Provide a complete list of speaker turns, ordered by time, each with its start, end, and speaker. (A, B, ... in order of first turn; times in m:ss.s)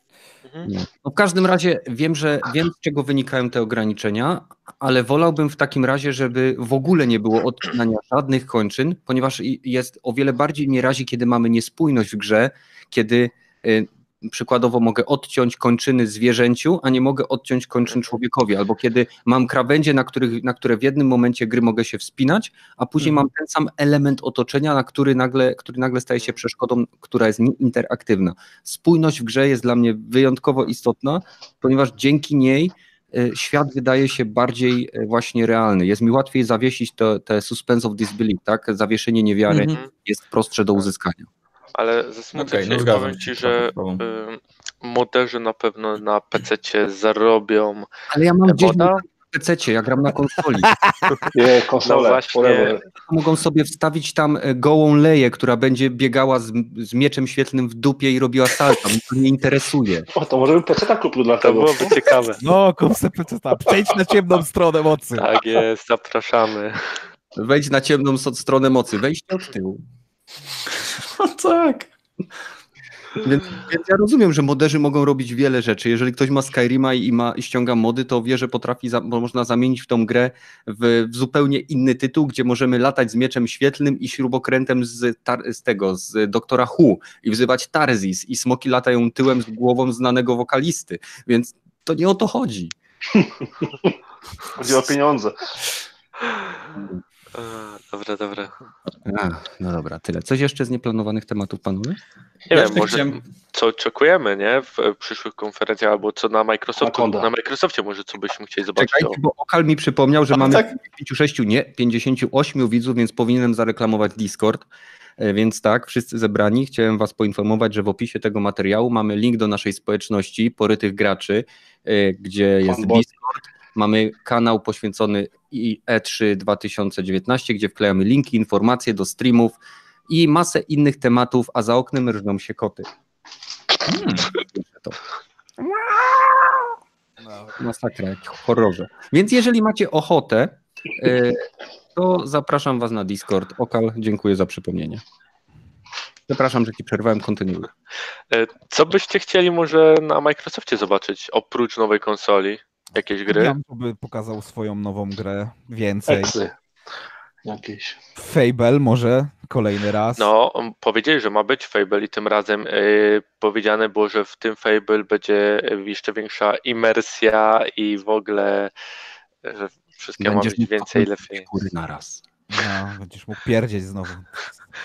0:00.7-0:41.3 A
0:39.5-0:39.8 B
0:41.8-0:47.9 C
0:42.4-0:44.0 B
0:48.1-0:50.8 A
0:48.4-0:49.0 C
0:51.3-0:52.8 D
0:51.8-0:52.8 C
0:53.0-1:00.1 A
1:00.1-1:02.2 D
1:01.4-1:02.4 C
1:02.4-1:05.3 E
1:05.2-1:07.0 C
1:07.4-1:09.8 A
1:10.8-1:11.9 B
1:13.2-1:32.8 A
1:33.1-1:33.9 D
1:34.6-1:35.5 D
1:36.2-1:36.5 C
1:37.4-1:38.5 C
1:39.0-1:42.0 A
1:42.5-1:49.2 C
1:42.5-1:43.2 B
1:46.8-1:47.3 D
1:48.8-1:54.7 A
1:50.3-1:50.7 B
1:55.2-2:09.6 A
2:02.6-2:03.0 D
2:10.1-2:12.9 A
2:13.9-2:15.0 A
2:17.6-2:21.4 A
2:22.0-2:25.0 A
2:26.3-2:27.7 A
2:28.3-2:33.6 C
2:33.3-2:36.4 E
2:36.1-2:36.5 D
2:37.4-2:38.0 D
2:38.2-2:40.3 E
2:40.2-2:48.7 C
2:49.4-2:51.5 C
2:50.2-2:52.2 A
2:52.5-2:54.5 E